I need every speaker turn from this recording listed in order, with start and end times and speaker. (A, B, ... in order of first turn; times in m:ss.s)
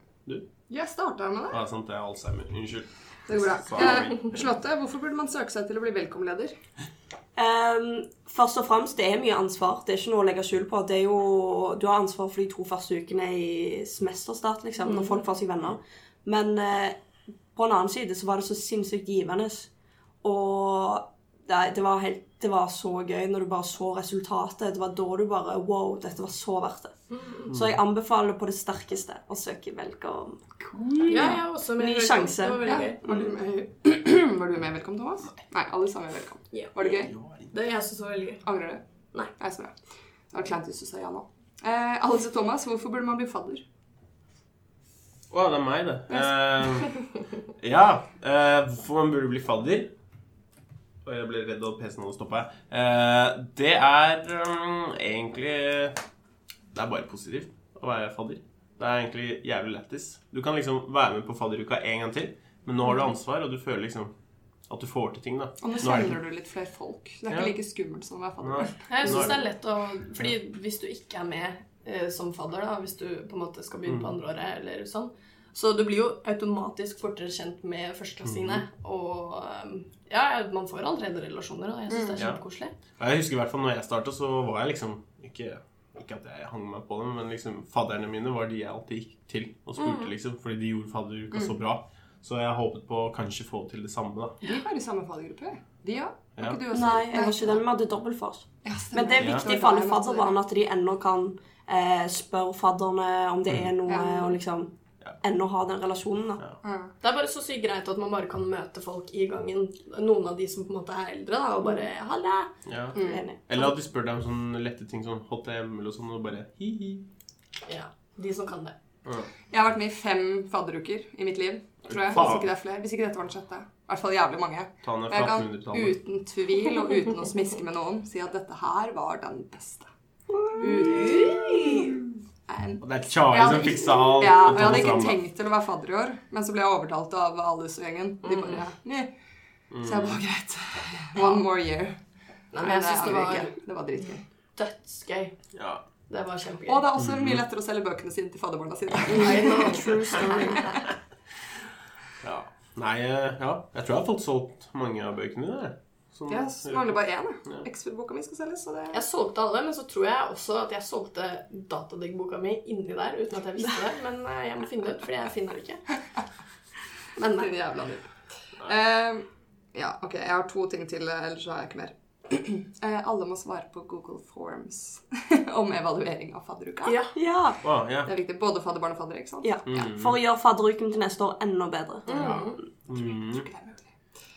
0:00.7-0:01.6 A
0:01.5-0:04.4 B
0:03.3-0:06.5 A
0:07.4-0:17.0 C
0:17.6-0:19.7 C
0:20.2-0:26.9 C
0:27.1-0:27.5 D
0:27.5-0:33.3 C
0:31.1-0:33.0 D
0:32.6-0:37.1 A
0:37.0-0:37.5 B
0:37.5-0:38.4 D
0:38.4-0:38.8 A
0:39.4-0:39.7 A
0:40.3-0:43.6 A
0:45.3-0:47.0 B
0:46.1-0:46.4 A
0:47.6-0:49.9 B
0:51.0-0:56.0 B
0:56.7-1:04.1 B
1:04.7-1:06.2 B
1:05.6-1:09.3 A
1:07.3-1:07.6 B
1:08.4-1:09.5 B
1:08.9-1:22.7 D
1:13.9-1:14.1 B
1:18.2-1:18.6 B
1:21.9-1:22.2 A
1:23.0-1:34.4 B
1:29.8-1:30.1 D
1:34.4-1:37.7 A
1:36.4-1:36.6 B
1:36.7-1:46.4 C
1:38.6-1:40.4 A
1:39.2-1:39.5 B
1:43.8-1:44.4 A
1:46.6-1:46.9 A
1:47.0-1:52.5 D
1:52.7-1:57.1 B
1:53.0-1:53.2 A
1:53.0-1:53.7 C
1:57.7-1:58.8 D
1:59.5-2:09.9 A
2:01.9-2:02.5 B
2:04.8-2:06.0 B
2:10.6-2:11.4 A
2:10.6-2:11.9 C
2:12.5-2:19.1 A
2:12.8-2:15.2 B
2:18.2-2:18.6 D
2:19.7-2:20.2 B
2:19.8-2:22.0 A
2:22.5-2:23.5 D
2:22.6-2:24.2 A
2:24.6-2:25.4 D
2:25.6-2:25.8 B
2:26.1-2:26.9 D
2:26.7-2:30.6 A
2:27.0-2:27.4 B
2:29.1-2:30.6 D
2:29.2-2:30.7 C
2:32.2-2:37.6 B
2:36.3-2:39.0 A
2:38.9-2:45.8 D
2:47.2-2:47.5 D
2:47.4-2:57.1 A
2:56.8-2:57.1 D
2:57.2-2:57.6 C
2:57.6-2:58.1 B
2:58.0-2:59.6 A
2:59.4-3:02.5 C
2:59.7-3:00.2 B
3:02.1-3:02.6 D
3:02.2-3:03.5 B
3:02.9-3:03.8 A